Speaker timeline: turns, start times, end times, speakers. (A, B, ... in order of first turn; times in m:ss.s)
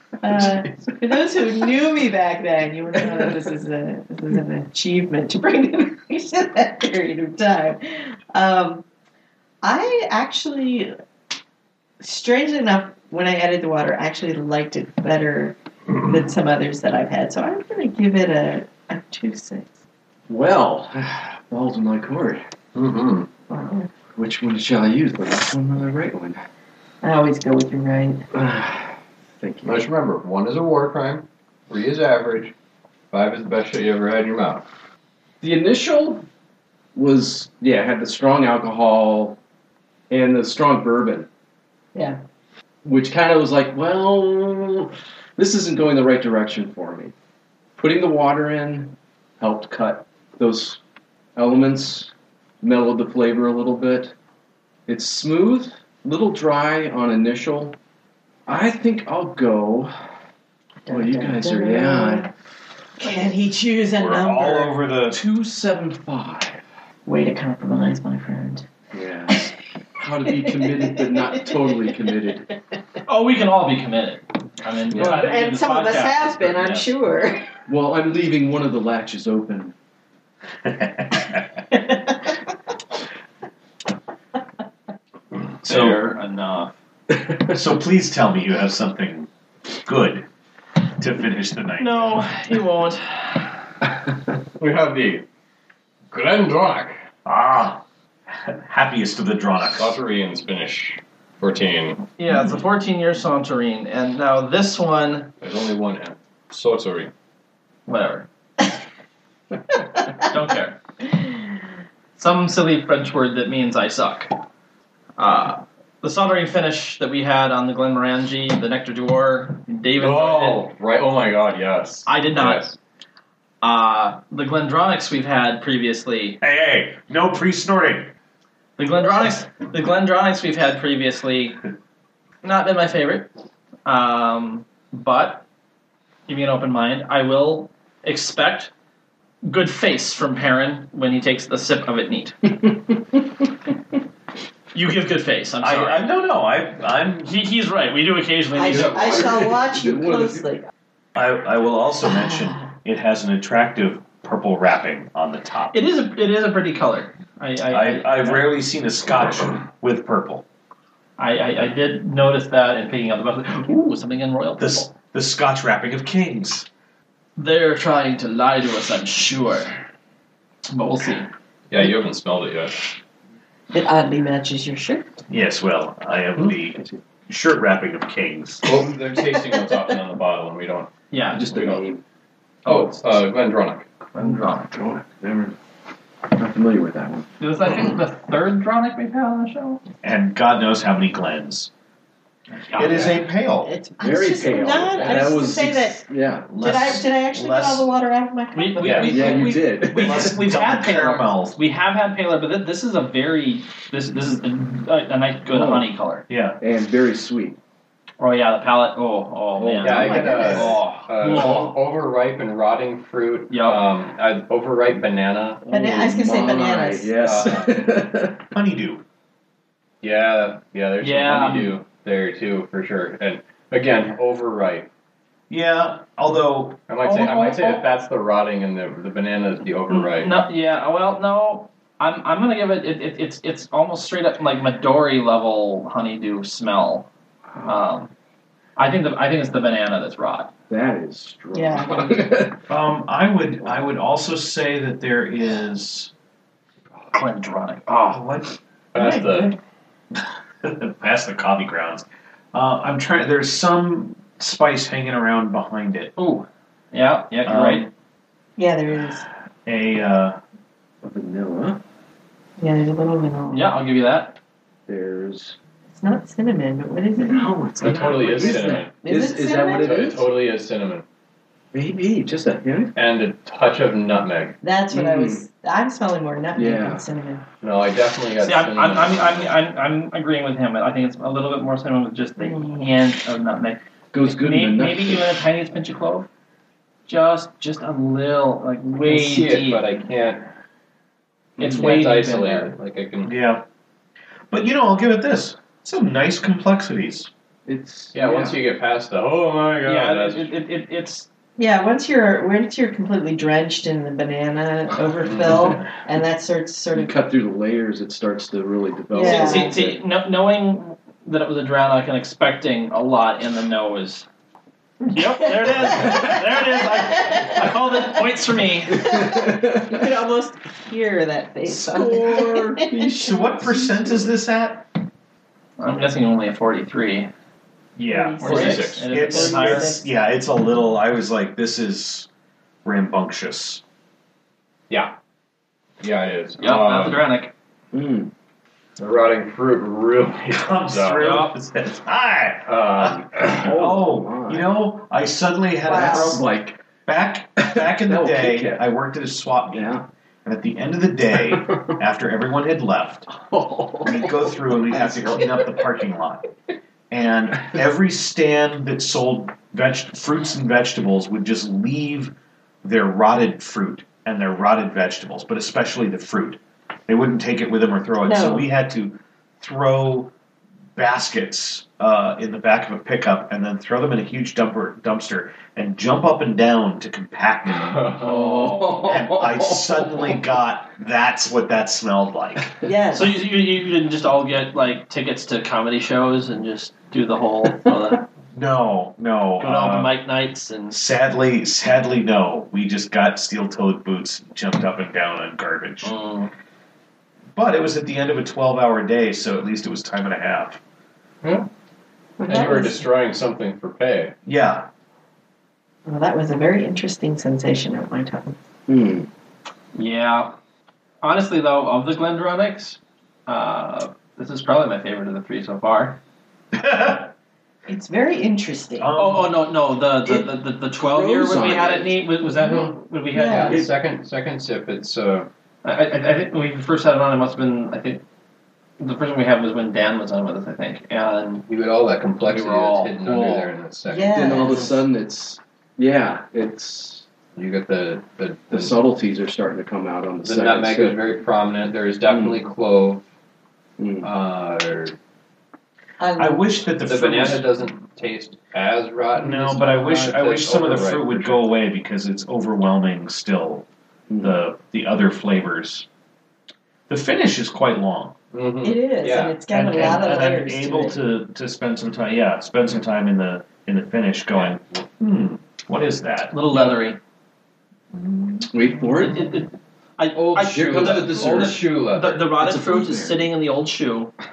0:00.2-0:08.8 A
0:09.6-0:10.9 A
0:12.0-0:19.6 A
0:20.3-0:22.4 B
0:22.7-0:23.3 C
0:23.5-0:23.9 A
0:24.2-0:26.4 B
0:27.0-0:28.2 A
0:28.3-0:29.9 B
0:29.6-0:32.5 C
0:33.1-0:34.6 C
0:35.4-0:36.2 B
0:36.9-0:39.4 B
0:40.1-0:41.3 B
0:42.8-0:47.1 B
0:47.8-0:50.8 B
0:51.4-0:54.1 B
0:54.9-0:57.8 B
0:58.5-0:59.9 B
1:00.8-1:02.3 A
1:00.9-1:02.3 B
1:03.0-1:04.8 A
1:03.9-1:05.2 D
1:05.1-1:06.6 B
1:07.0-1:08.6 A
1:08.9-1:12.5 B
1:10.3-1:12.1 A
1:13.0-1:16.9 E
1:14.9-1:15.2 B
1:15.0-1:17.5 A
1:17.7-1:19.7 B
1:20.6-1:21.6 D
1:21.7-1:22.4 A
1:25.6-1:26.7 E
1:25.6-1:26.0 D
1:27.1-1:27.5 B
1:27.5-1:29.3 D
1:29.8-1:30.2 D
1:31.0-1:32.2 D
1:31.8-1:33.5 E
1:34.6-1:35.2 C
1:36.1-1:37.0 C
1:37.2-1:40.0 D
1:39.8-1:42.1 C
1:42.2-1:45.3 E
1:45.4-1:47.1 C
1:47.8-1:48.3 E
1:50.2-1:50.8 E
1:52.2-1:54.3 E
1:55.2-2:00.6 E
2:00.0-2:02.8 C
2:02.0-2:02.7 E
2:03.6-2:06.4 E
2:06.4-2:08.1 D
2:08.8-2:11.6 E
2:12.4-2:13.3 E
2:13.8-2:15.4 E
2:16.3-2:18.7 E
2:19.4-2:22.4 E
2:24.7-2:26.0 E
2:25.6-2:27.3 D
2:27.2-2:29.3 E
2:28.5-2:30.7 A
2:28.7-2:30.4 B
2:31.1-2:35.8 D
2:35.7-2:38.5 E
2:37.7-2:40.4 D
2:41.2-2:44.9 E
2:44.6-2:46.7 D
2:47.4-2:49.7 E
2:50.7-2:51.3 E
2:51.7-2:52.8 C
2:53.7-2:55.1 A
2:55.3-2:58.7 D
2:58.6-3:00.9 C
3:01.1-3:01.7 E
3:01.3-3:02.0 B
3:01.5-3:01.8 C
3:02.6-3:03.1 E
3:02.6-3:03.8 C
3:04.1-3:04.7 E
3:04.2-3:05.6 B
3:06.3-3:07.3 B
3:07.4-3:09.8 E
3:10.0-3:11.7 D
3:12.5-3:13.2 E
3:12.8-3:13.7 D
3:13.6-3:16.0 A
3:14.0-3:16.5 B
3:15.0-3:15.3 C
3:16.5-3:17.9 D
3:16.6-3:19.5 A
3:18.5-3:26.2 E
3:18.9-3:21.6 D
3:18.9-3:20.4 B
3:25.5-3:25.8 B
3:26.3-3:26.6 D
3:26.6-3:27.6 B
3:28.2-3:31.8 E
3:29.6-3:30.5 B
3:29.6-3:35.6 C
3:29.8-3:30.8 A
3:33.5-3:33.8 E
3:35.6-3:38.4 B
3:35.7-3:37.2 A
3:37.2-3:37.6 C
3:38.5-3:39.0 D
3:40.0-3:44.9 C
3:41.0-3:41.8 E
3:45.5-3:46.8 D
3:46.9-3:50.4 C
3:47.0-3:47.8 E
3:49.9-3:57.1 E
3:57.6-3:58.1 E
3:58.8-4:00.5 E
4:00.7-4:02.6 B
4:01.5-4:02.2 A
4:02.7-4:06.1 D
4:07.1-4:08.2 E
4:08.1-4:08.5 D
4:08.9-4:09.5 C
4:09.0-4:09.6 A
4:10.6-4:16.1 D
4:16.2-4:17.9 E
4:17.4-4:17.9 D
4:18.6-4:19.3 A
4:19.6-4:20.4 D
4:21.0-4:21.8 B
4:22.6-4:23.7 A
4:23.5-4:24.4 E
4:24.9-4:25.6 B
4:25.9-4:27.5 A
4:27.2-4:30.3 B
4:27.8-4:28.9 C
4:29.0-4:30.1 A
4:29.5-4:31.0 C
4:31.7-4:32.9 B
4:32.9-4:34.6 C
4:34.6-4:37.4 A
4:34.9-4:35.4 B
4:36.5-4:37.0 B
4:37.6-4:39.5 C
4:38.4-4:46.3 E
4:44.1-4:45.4 B
4:47.1-4:49.8 E
4:49.0-4:50.4 C
4:51.6-4:52.7 E
4:51.6-4:53.3 C
4:51.6-4:51.9 B
4:53.2-4:53.6 D
4:54.5-4:57.3 D
4:57.6-4:58.6 B
4:58.1-5:00.5 C
4:59.8-5:01.3 E
5:01.6-5:07.2 A
5:05.2-5:05.8 C
5:05.4-5:05.8 B
5:06.9-5:10.0 B
5:09.1-5:09.7 A
5:09.2-5:14.2 E
5:15.1-5:19.2 E
5:15.7-5:18.1 A
5:18.9-5:20.1 B
5:19.0-5:23.2 A
5:21.6-5:24.3 B
5:23.1-5:24.8 D
5:25.8-5:27.3 E
5:28.0-5:32.3 D
5:28.0-5:30.0 A
5:28.4-5:29.1 C
5:28.4-5:30.0 E
5:32.8-5:33.8 D
5:36.0-5:37.2 C
5:36.6-5:37.5 E
5:37.9-5:38.3 B
5:39.0-5:41.3 C
5:40.5-5:46.4 D
5:41.2-5:41.5 E
5:42.7-5:43.7 C
5:43.5-5:44.7 B
5:45.8-5:46.4 A
5:45.9-5:46.8 B
5:47.0-5:53.3 D
5:47.6-5:48.8 B
5:49.7-5:50.0 B
5:51.5-5:51.9 B
5:53.3-5:55.8 B
5:54.0-5:56.4 D
5:57.1-6:10.3 D
6:08.2-6:08.7 A
6:11.0-6:18.2 D
6:17.8-6:19.0 C
6:18.2-6:20.4 B
6:19.0-6:22.8 D
6:22.8-6:23.3 A
6:23.1-6:28.2 E
6:28.5-6:30.1 D
6:29.6-6:31.0 E
6:30.9-6:36.1 D
6:36.0-6:36.5 E
6:37.5-6:40.8 D
6:42.4-6:43.0 A
6:42.4-6:42.8 B
6:42.4-6:44.3 C
6:44.4-6:44.9 D
6:46.0-6:48.6 A
6:48.9-6:49.3 B
6:49.9-6:50.5 E
6:51.2-6:56.2 E
6:56.7-6:57.3 D
6:57.9-6:59.1 A
6:59.0-6:59.5 D
6:59.1-7:03.8 E
7:00.2-7:02.9 B
7:03.3-7:03.8 A
7:03.5-7:05.5 C
7:05.8-7:08.2 E
7:09.0-7:11.6 E
7:11.7-7:14.8 C
7:12.4-7:13.7 E
7:14.1-7:15.0 A
7:14.3-7:17.3 B
7:17.5-7:19.0 C
7:18.7-7:21.2 B
7:20.4-7:23.2 C
7:22.3-7:22.6 B
7:24.0-7:24.3 B
7:24.2-7:25.1 C
7:26.2-7:26.7 A
7:26.4-7:27.6 D
7:27.0-7:31.6 C
7:29.4-7:33.8 D
7:34.3-7:34.6 B
7:34.4-7:36.1 D
7:37.1-7:38.4 D
7:38.5-7:39.6 C
7:38.8-7:41.2 A
7:39.7-7:46.6 D
7:46.5-7:47.2 E
7:48.1-7:48.7 A
7:48.7-7:49.5 B
7:49.2-7:54.3 E
7:50.3-7:52.4 C
7:50.6-7:51.9 B
7:52.6-7:53.5 B